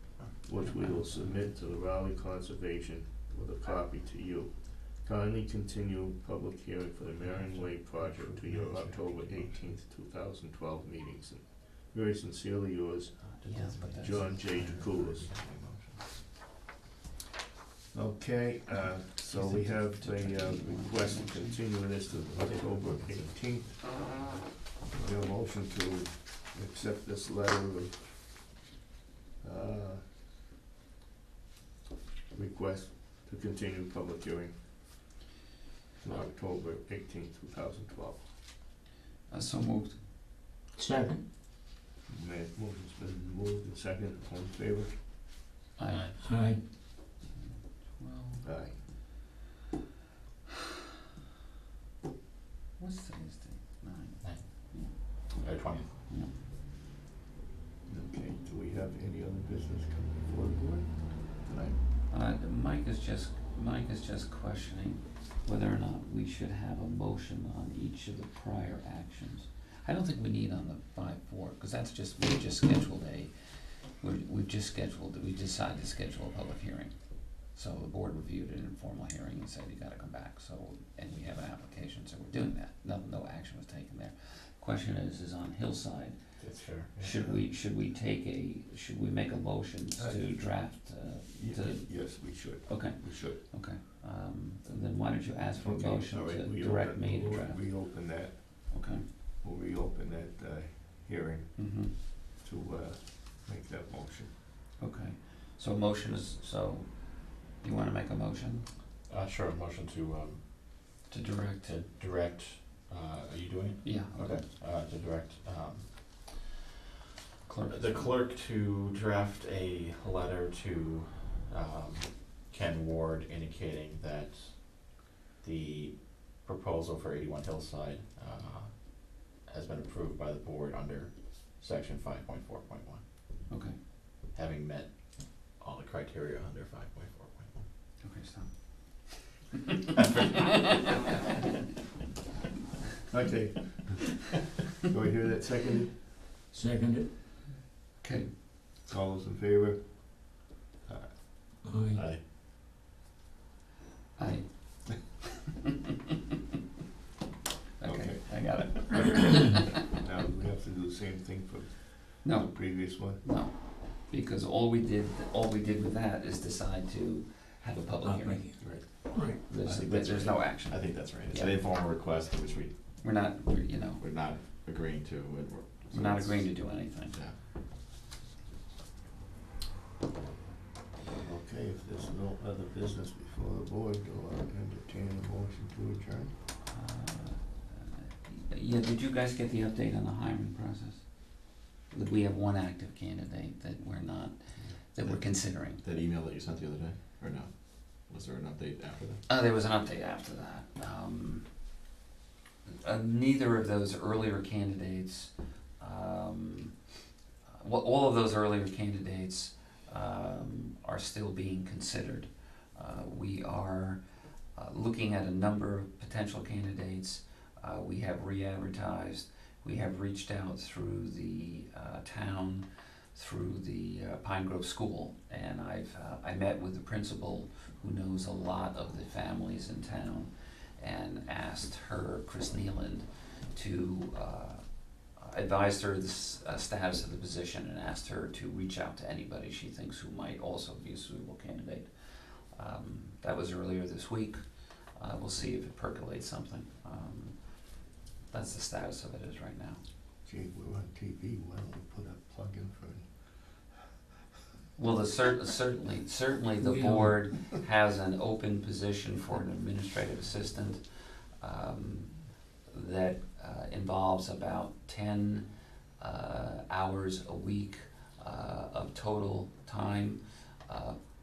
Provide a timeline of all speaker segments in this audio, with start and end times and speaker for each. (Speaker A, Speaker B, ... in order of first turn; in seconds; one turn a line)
Speaker A: 0.4-15.3
Speaker B: 0.6-1.5
Speaker C: 7.2-9.8
Speaker B: 13.4-14.6
Speaker C: 13.4-16.1
Speaker A: 17.9-24.0
Speaker B: 18.7-21.8
Speaker C: 22.7-23.3
Speaker A: 24.9-28.5
Speaker A: 29.4-30.1
Speaker A: 32.3-34.6
Speaker A: 36.0-38.3
Speaker B: 39.3-40.0
Speaker D: 40.8-41.2
Speaker A: 42.1-45.0
Speaker B: 45.8-46.2
Speaker C: 45.9-46.2
Speaker D: 46.2-46.6
Speaker B: 47.2-48.5
Speaker A: 48.4-48.8
Speaker B: 52.8-56.3
Speaker C: 54.2-55.9
Speaker A: 57.9-61.8
Speaker B: 62.1-73.3
Speaker B: 74.0-76.9
Speaker B: 77.5-86.2
Speaker C: 86.4-87.3
Speaker B: 87.0-97.8
Speaker A: 90.0-90.3
Speaker A: 91.3-93.4
Speaker A: 95.6-98.7
Speaker B: 98.7-99.0
Speaker A: 99.4-104.3
Speaker B: 101.6-101.9
Speaker B: 104.8-108.7
Speaker C: 109.1-110.9
Speaker B: 111.1-111.8
Speaker C: 111.6-116.6
Speaker B: 113.8-114.4
Speaker B: 117.5-118.1
Speaker C: 117.7-133.0
Speaker B: 133.5-133.8
Speaker C: 134.3-137.6
Speaker B: 138.0-139.3
Speaker B: 140.1-140.9
Speaker A: 143.1-144.3
Speaker A: 144.9-146.0
Speaker D: 146.5-147.1
Speaker B: 148.0-148.3
Speaker A: 148.9-151.2
Speaker D: 151.6-152.0
Speaker C: 151.9-152.2
Speaker B: 154.2-155.2
Speaker B: 157.8-159.6
Speaker A: 157.8-163.2
Speaker B: 162.2-171.6
Speaker D: 168.0-169.4
Speaker C: 168.6-172.8
Speaker B: 173.0-174.0
Speaker C: 174.0-177.4
Speaker B: 175.9-177.2
Speaker A: 181.2-186.3
Speaker B: 186.7-195.8
Speaker C: 195.0-199.2
Speaker B: 199.3-201.5
Speaker B: 202.8-206.8
Speaker B: 207.6-214.0
Speaker B: 214.6-244.4
Speaker B: 245.0-247.4
Speaker B: 248.3-249.8
Speaker A: 250.2-253.8
Speaker B: 254.8-260.8
Speaker D: 256.7-257.0
Speaker B: 261.4-265.4
Speaker B: 266.0-271.0